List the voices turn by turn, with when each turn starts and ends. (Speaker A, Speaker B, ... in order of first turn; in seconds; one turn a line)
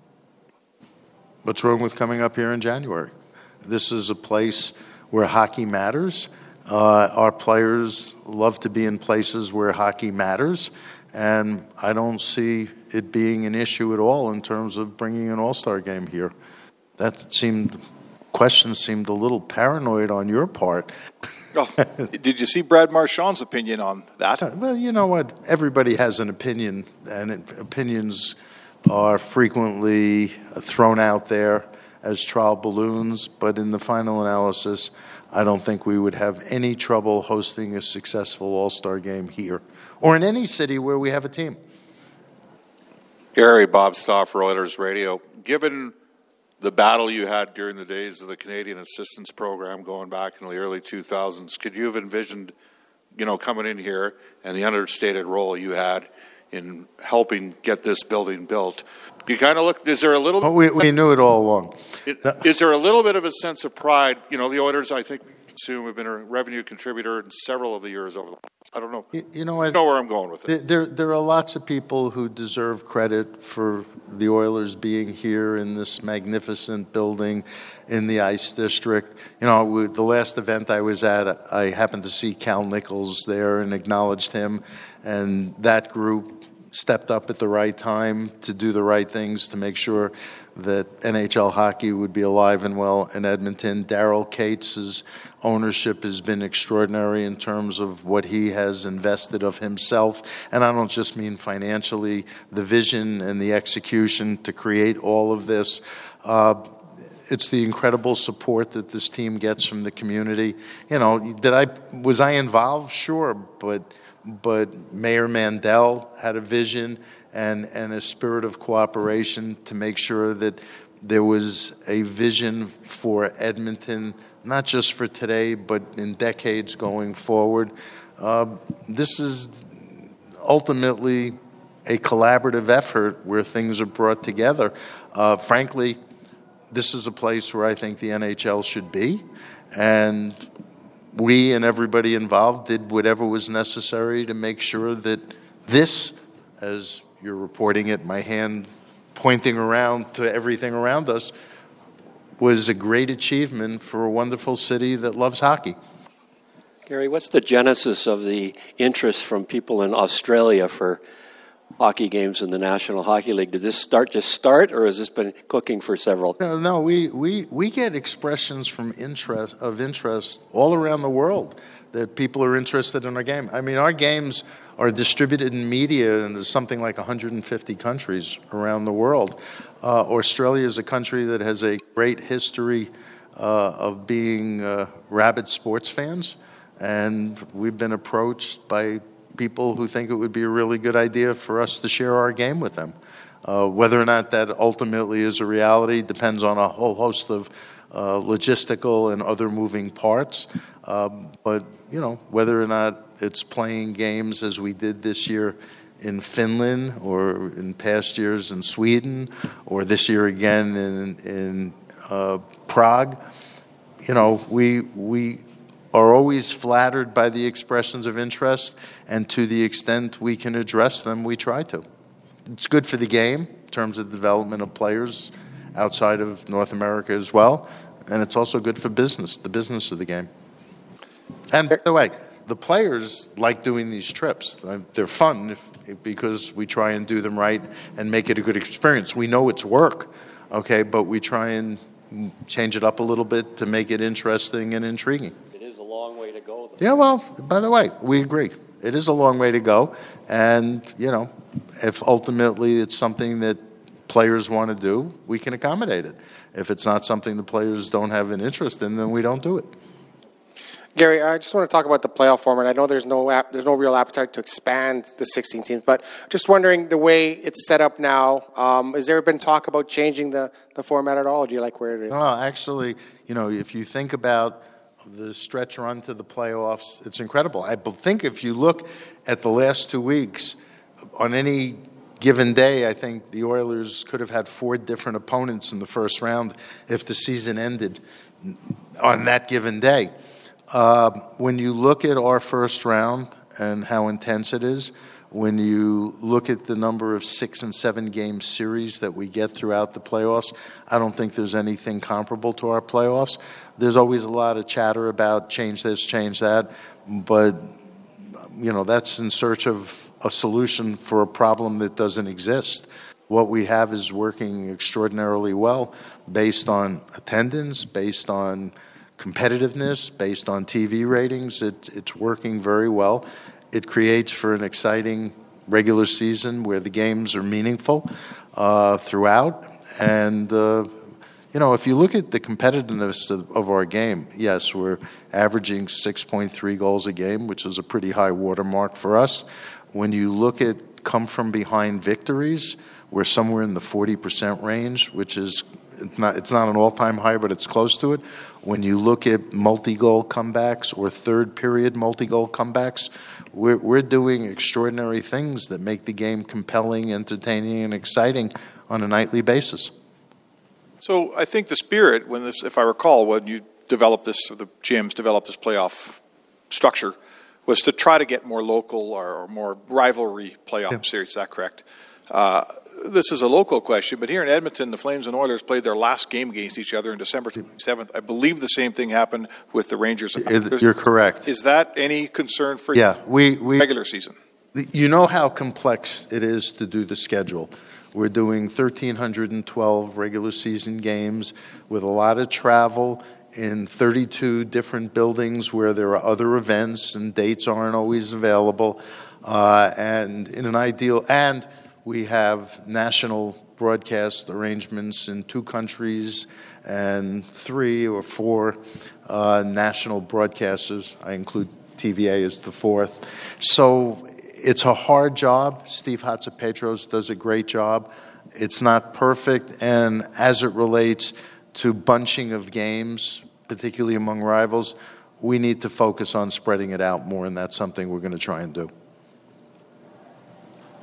Speaker A: 1.4-3.1
Speaker A: 3.6-16.3
Speaker A: 17.0-17.8
Speaker A: 18.3-20.9
Speaker B: 21.5-24.4
Speaker A: 24.4-41.6
Speaker C: 43.3-45.9
Speaker C: 46.6-52.5
Speaker C: 53.1-60.5
Speaker A: 60.4-62.4
Speaker C: 62.1-70.5
Speaker A: 69.1-69.8
Speaker A: 70.5-106.7
Speaker A: 107.3-136.0
Speaker A: 136.7-140.4
Speaker A: 141.1-151.3
Speaker A: 152.4-155.8
Speaker D: 156.9-161.0
Speaker D: 161.8-166.3
Speaker A: 166.4-213.2
Speaker A: 214.0-221.8
Speaker A: 222.5-230.3
Speaker A: 231.5-245.3
Speaker D: 245.5-246.7
Speaker A: 246.8-259.7
Speaker E: 260.9-272.1
Speaker A: 272.1-280.6
Speaker A: 281.2-290.1
Speaker A: 290.7-307.7
Speaker A: 308.5-330.9
Speaker A: 331.5-359.9
Speaker B: 361.0-367.1
Speaker B: 367.6-380.8
Speaker A: 380.4-381.4
Speaker B: 381.4-383.1
Speaker A: 382.9-383.9
Speaker B: 383.8-384.4
Speaker A: 384.7-428.9